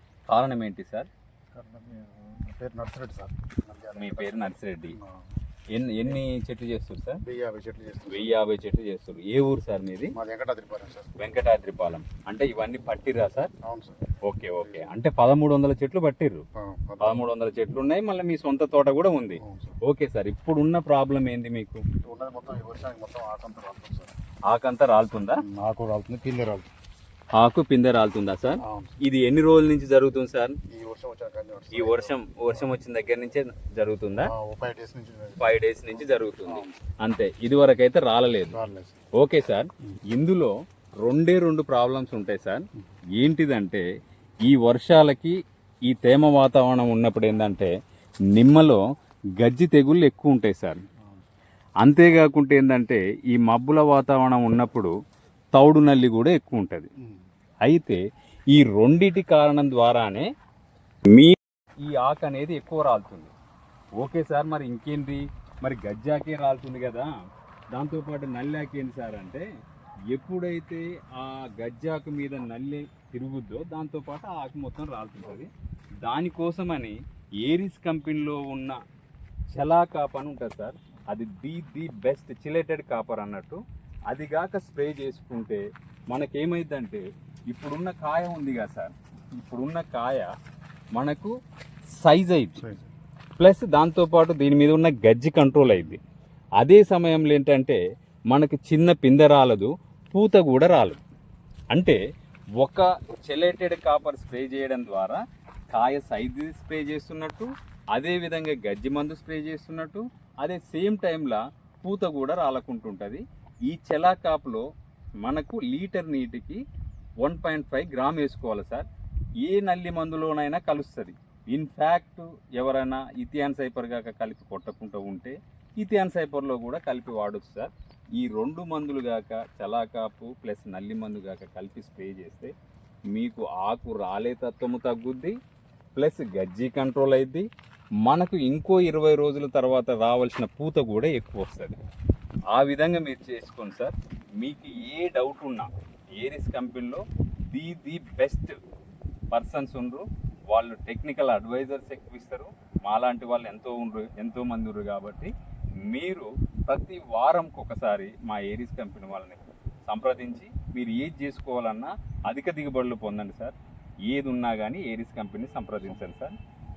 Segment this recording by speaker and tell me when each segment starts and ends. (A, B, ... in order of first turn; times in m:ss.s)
0:00.3-0:01.1 A
0:01.5-0:05.2 B
0:04.0-0:05.0 A
0:05.7-0:07.2 A
0:07.2-0:08.4 B
0:08.1-0:10.1 A
0:10.1-0:11.1 B
0:11.2-0:13.5 A
0:13.6-0:14.0 B
0:14.2-0:16.4 A
0:14.5-0:14.9 B
0:16.5-0:17.2 B
0:17.0-0:21.8 A
0:19.4-0:19.8 B
0:22.0-0:24.1 B
0:24.5-0:25.4 A
0:25.4-0:26.7 B
0:27.4-0:30.6 A
0:28.6-0:29.0 B
0:30.7-0:32.7 B
0:31.7-0:34.3 A
0:34.2-0:35.4 B
0:35.4-0:38.6 A
0:36.0-0:36.7 B
0:38.5-0:39.0 B
0:39.2-0:42.6 A
0:43.2-0:43.8 A
0:44.4-0:47.7 A
0:48.3-0:48.8 A
0:49.4-0:50.8 A
0:51.8-0:54.9 A
0:55.5-0:56.9 A
0:57.6-0:58.0 A
0:58.5-1:00.3 A
1:01.1-1:03.3 A
1:04.0-1:07.1 A
1:07.7-1:09.4 A
1:10.1-1:15.5 A
1:16.0-1:18.8 A
1:19.5-1:30.3 A
1:30.9-1:31.3 A
1:32.0-1:32.6 A
1:32.6-1:32.9 B
1:33.4-1:36.0 A
1:36.6-1:37.8 A
1:38.3-1:41.0 A
1:41.7-1:42.0 A
1:42.6-1:54.6 A
1:55.2-1:56.6 A
1:57.2-1:58.9 A
1:59.4-2:12.5 A
2:13.1-2:15.4 A
2:15.9-2:17.4 A
2:18.0-2:21.8 A
2:22.5-2:28.6 A
2:29.3-2:35.3 A
2:35.9-2:43.6 A
2:44.1-2:46.4 A